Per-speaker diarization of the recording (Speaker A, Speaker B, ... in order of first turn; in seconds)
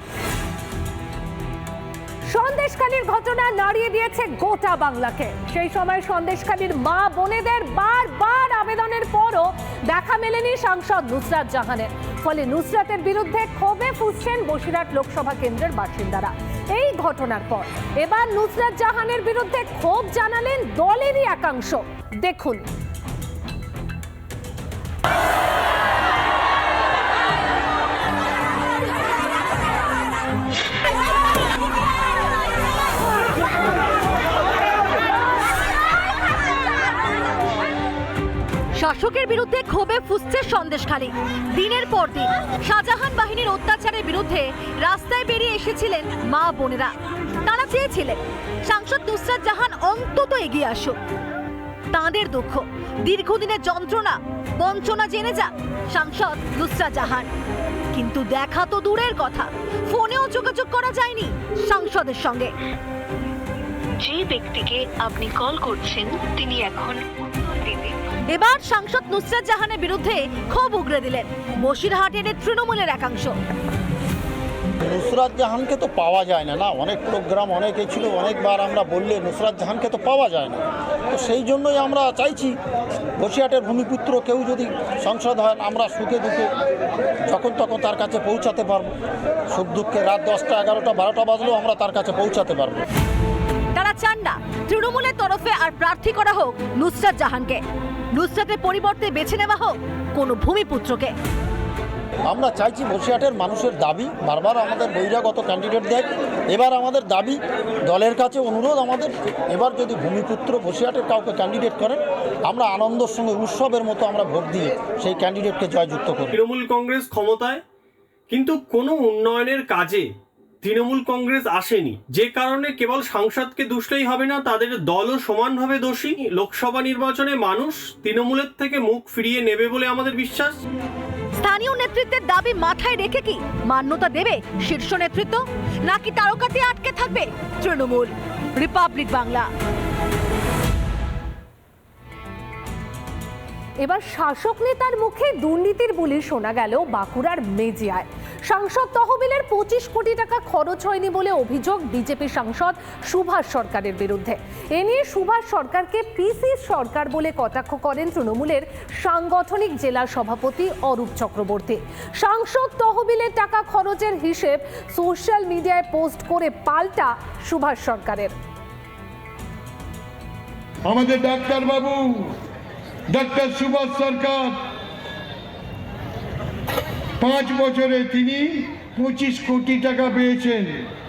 Speaker A: 2.3-22.6, 143.8-168.3
Speaker B: 38.7-51.0, 51.9-57.3, 57.9-62.5, 68.3-73.3, 93.7-97.6, 98.1-101.1, 131.4-139.5
Speaker C: 63.9-67.9
Speaker D: 74.8-82.5, 83.2-86.5, 87.3-88.9, 89.5-92.8, 102.3-116.3
Speaker E: 116.3-117.6, 118.3-120.1, 120.6-130.6
Speaker F: 170.9-172.3, 173.1-174.6, 177.2-180.8